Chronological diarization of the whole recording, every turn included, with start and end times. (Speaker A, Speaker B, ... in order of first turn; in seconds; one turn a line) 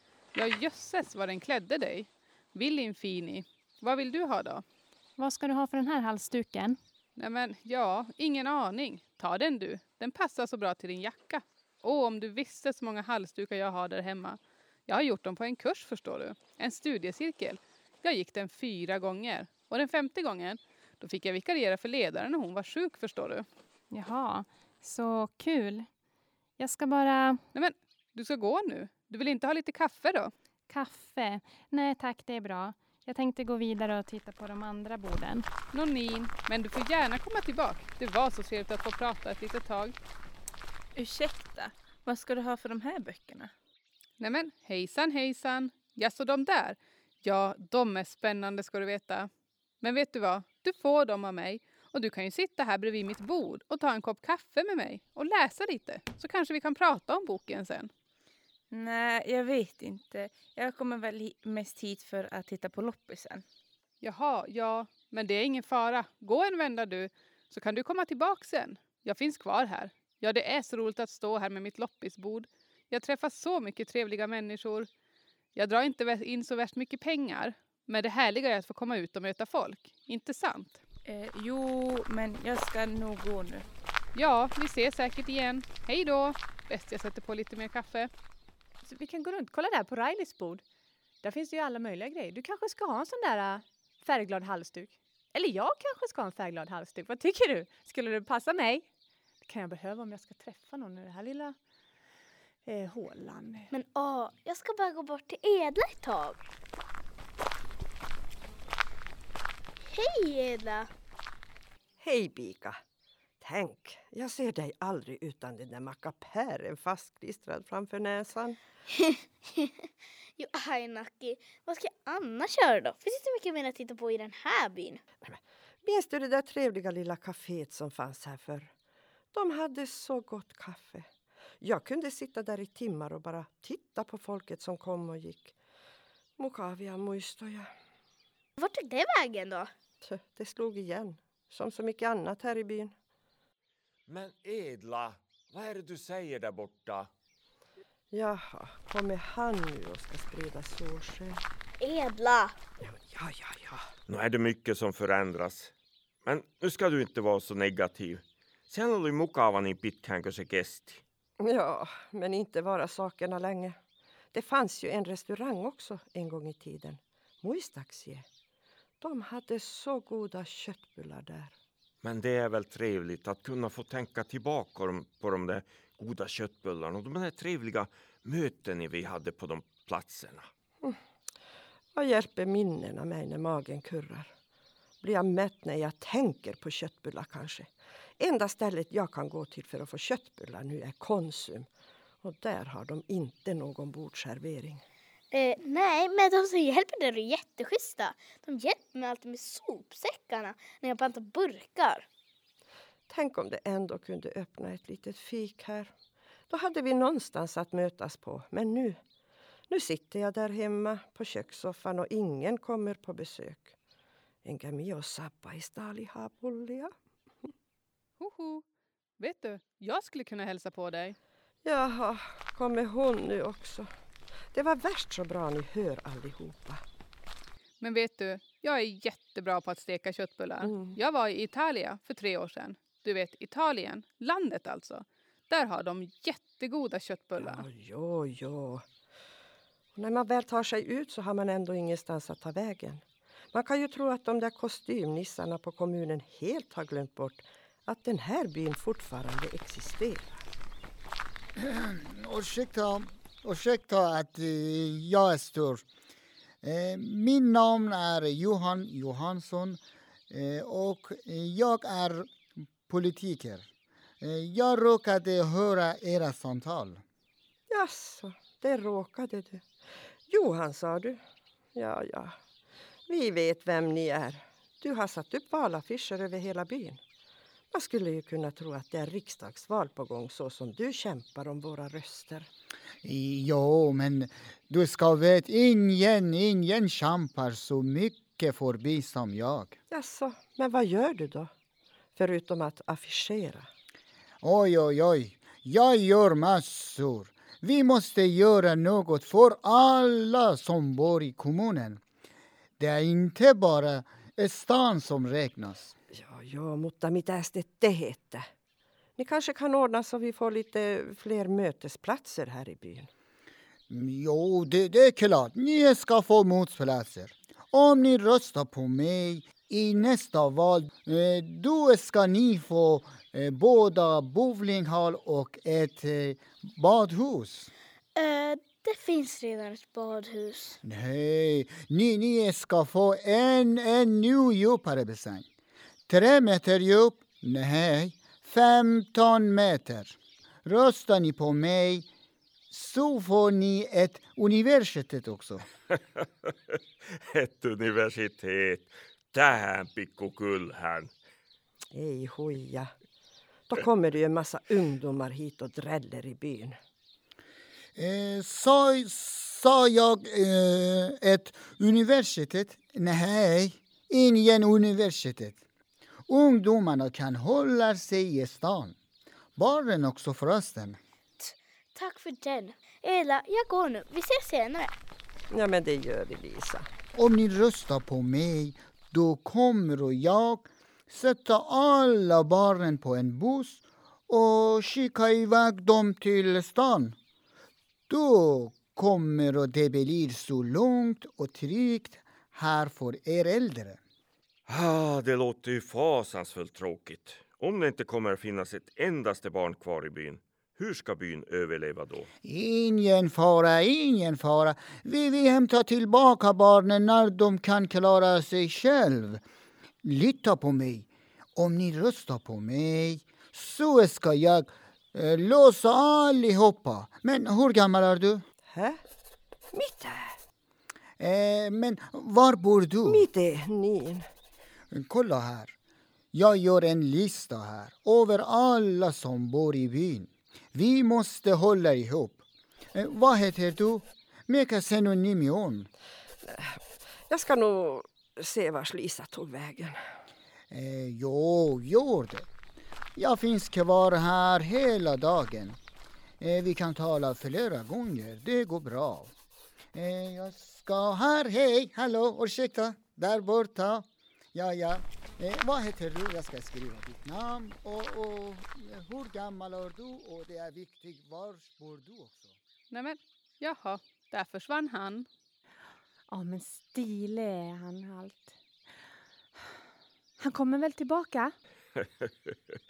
Speaker A: 0.3-4.6
Speaker B: 5.2-6.8
Speaker A: 7.2-23.5
Speaker B: 23.9-25.9
Speaker B: 26.6-27.4
Speaker A: 27.5-30.3
Speaker B: 30.7-35.5
Speaker A: 35.7-39.9
Speaker C: 40.9-43.5
Speaker A: 44.2-49.3
Speaker A: 49.8-57.9
Speaker C: 58.7-63.4
Speaker A: 64.0-74.9
Speaker A: 75.5-80.8
Speaker C: 81.0-83.7
Speaker A: 84.1-88.1
Speaker D: 88.8-90.6
Speaker D: 91.2-98.9
Speaker D: 99.4-101.6
Speaker D: 102.6-103.7
Speaker E: 103.7-106.4
Speaker E: 109.9-110.9
Speaker F: 112.0-112.8
Speaker F: 113.4-118.6
Speaker E: 118.9-119.8
Speaker E: 120.4-125.0
Speaker F: 125.2-128.7
Speaker F: 129.3-131.1
Speaker F: 131.6-135.5
Speaker F: 136.4-137.7
Speaker E: 138.6-139.7
Speaker F: 140.0-142.9
Speaker G: 144.1-147.1
Speaker F: 148.1-151.4
Speaker E: 151.8-152.6
Speaker F: 152.8-153.9
Speaker G: 154.1-155.7
Speaker G: 156.2-161.0
Speaker F: 161.4-163.8
Speaker F: 164.3-168.2
Speaker F: 169.0-171.5
Speaker G: 172.0-180.5
Speaker F: 181.9-184.3
Speaker F: 185.0-191.7
Speaker F: 192.2-194.8
Speaker E: 195.3-202.1
Speaker F: 203.1-205.9
Speaker F: 206.5-209.0
Speaker F: 209.7-213.7
Speaker F: 214.4-216.9
Speaker A: 218.2-218.6
Speaker A: 219.2-221.2
Speaker F: 221.6-223.9
Speaker F: 224.5-226.8
Speaker A: 227.8-237.6
Speaker F: 230.6-231.0
Speaker F: 237.4-238.8
Speaker F: 239.9-250.4
Speaker H: 251.6-255.8
Speaker H: 256.6-267.0
Speaker F: 267.7-269.7
Speaker F: 270.3-271.2
Speaker F: 271.7-272.4
Speaker F: 273.1-277.0
Speaker F: 277.7-282.5
Speaker H: 283.0-289.8
Speaker F: 289.9-291.5
Speaker F: 292.1-293.7
Speaker H: 294.4-302.0
Speaker H: 302.8-305.9
Speaker F: 306.1-308.5
Speaker F: 309.2-313.1
Speaker H: 313.9-327.7
Speaker E: 328.1-330.8
Speaker H: 330.8-335.4
Speaker H: 336.1-342.1
Speaker H: 342.7-345.6
Speaker G: 347.1-351.1
Speaker F: 351.9-352.9
Speaker F: 353.7-356.8
Speaker H: 357.9-365.6
Speaker H: 366.3-368.9
Speaker H: 369.6-371.0
Speaker E: 371.4-374.9
Speaker F: 375.5-376.9
Speaker H: 377.1-387.2
Speaker H: 388.1-394.0
Speaker G: 394.7-402.3
Speaker H: 402.4-409.4
Speaker H: 410.0-418.4
Speaker F: 418.6-419.0
Speaker F: 419.7-420.4
Speaker H: 421.2-423.3
Speaker F: 423.1-424.3
Speaker H: 424.9-425.8
Speaker H: 426.3-432.4
Speaker H: 432.9-435.9
Speaker F: 436.4-436.8
Speaker F: 437.3-440.1
Speaker H: 440.7-442.5
Speaker H: 443.1-445.8
Speaker H: 446.4-449.3
Speaker H: 449.9-462.6
Speaker A: 462.9-465.3
Speaker D: 466.3-468.6
Speaker D: 470.4-471.5
Speaker G: 472.0-472.5